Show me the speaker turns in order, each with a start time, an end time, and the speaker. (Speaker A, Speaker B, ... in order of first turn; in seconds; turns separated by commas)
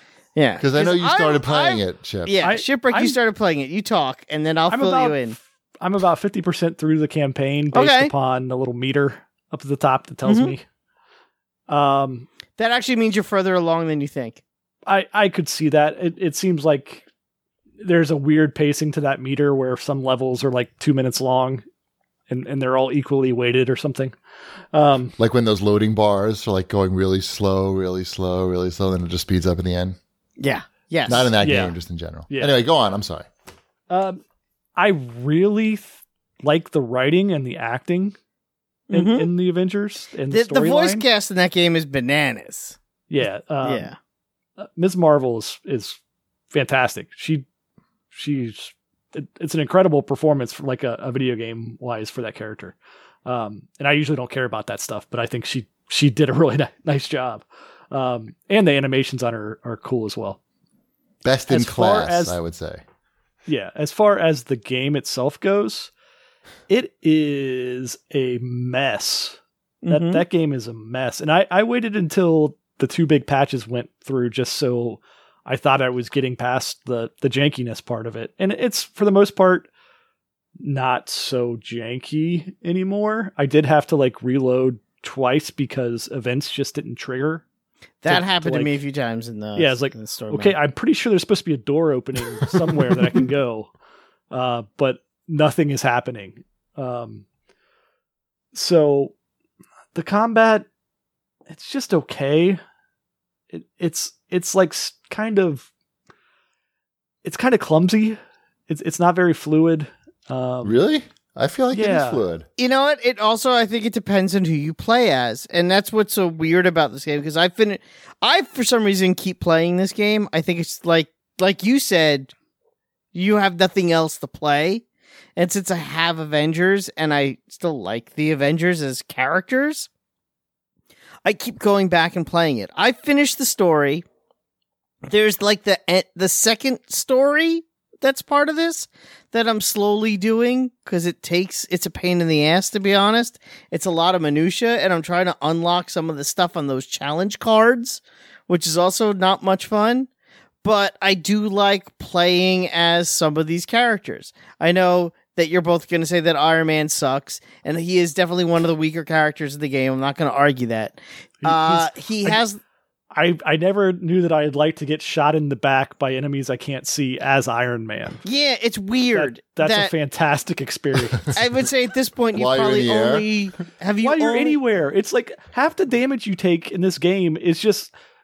Speaker A: 0.4-5.4, Speaker B: 0.6-2.4, Speaker C: 2.4-3.2, Speaker C: 4.7-10.6, Speaker A: 7.7-8.1, Speaker A: 10.3-10.5, Speaker C: 11.7-12.3, Speaker A: 12.6-14.4, Speaker C: 14.9-17.0, Speaker C: 17.8-21.6, Speaker C: 22.3-24.1, Speaker C: 24.7-25.1, Speaker B: 25.2-30.0, Speaker A: 30.4-31.3, Speaker B: 31.1-33.3, Speaker C: 31.4-31.8, Speaker C: 32.3-32.5, Speaker C: 33.9-34.2, Speaker C: 34.8-38.2, Speaker A: 38.9-39.3, Speaker C: 38.9-41.0, Speaker A: 40.3-42.8, Speaker C: 43.1-43.9, Speaker A: 43.6-44.0, Speaker C: 44.6-46.0, Speaker C: 46.5-47.5, Speaker C: 48.1-60.4, Speaker B: 61.2-62.8, Speaker C: 61.5-62.4, Speaker C: 63.5-65.9, Speaker C: 66.7-69.4, Speaker A: 69.8-70.2, Speaker C: 69.9-79.7, Speaker C: 80.6-87.4, Speaker A: 88.0-90.5, Speaker C: 88.1-88.8, Speaker C: 89.6-93.7, Speaker C: 94.3-97.2, Speaker C: 98.5-99.1, Speaker C: 100.0-100.7, Speaker C: 101.5-102.6, Speaker C: 103.5-105.7, Speaker C: 107.2-108.2, Speaker C: 108.7-110.8, Speaker B: 110.6-112.5, Speaker C: 111.7-112.2, Speaker A: 112.6-122.3, Speaker A: 123.1-124.8, Speaker A: 125.4-129.9, Speaker A: 131.2-134.1, Speaker A: 135.1-150.1, Speaker A: 150.6-162.6, Speaker C: 161.4-162.4, Speaker C: 163.1-168.2, Speaker A: 168.2-169.9, Speaker C: 169.1-171.3, Speaker A: 171.3-174.6, Speaker B: 172.3-173.3, Speaker C: 174.0-177.9